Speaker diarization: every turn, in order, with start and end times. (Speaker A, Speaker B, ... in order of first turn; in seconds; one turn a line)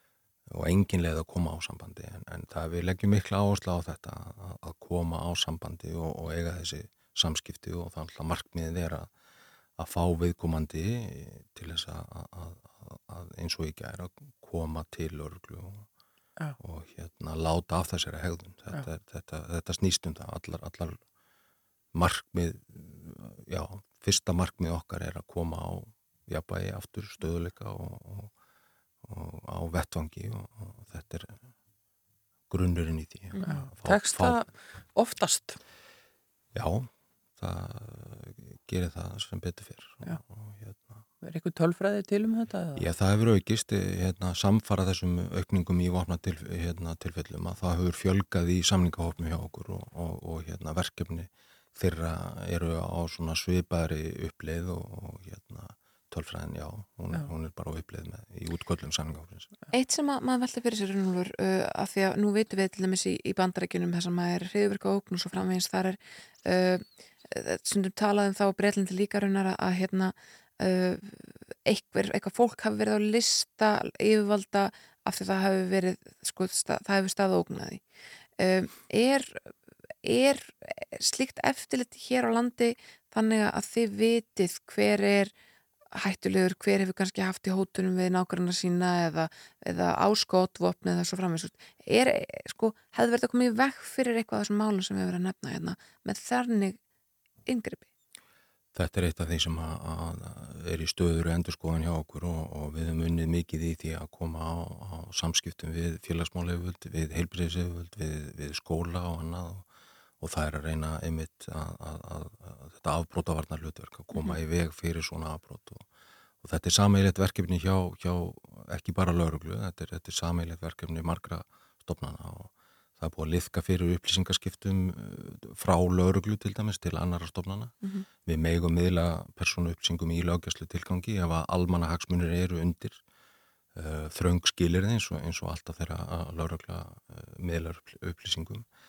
Speaker A: 0.5-9.1
Speaker A: 9.8-15.9
Speaker A: 16.6-21.0
Speaker A: 21.9-28.3
Speaker A: 29.0-31.4
Speaker A: 32.5-34.4
Speaker B: 33.4-35.6
Speaker A: 36.5-41.0
Speaker B: 41.2-42.9
Speaker A: 42.8-59.5
Speaker C: 59.7-77.8
Speaker C: 78.4-79.5
Speaker C: 80.0-85.3
Speaker C: 85.9-96.8
Speaker C: 97.5-97.9
Speaker A: 98.7-109.7
Speaker A: 110.2-115.8
Speaker A: 116.4-133.0
Speaker A: 133.8-138.7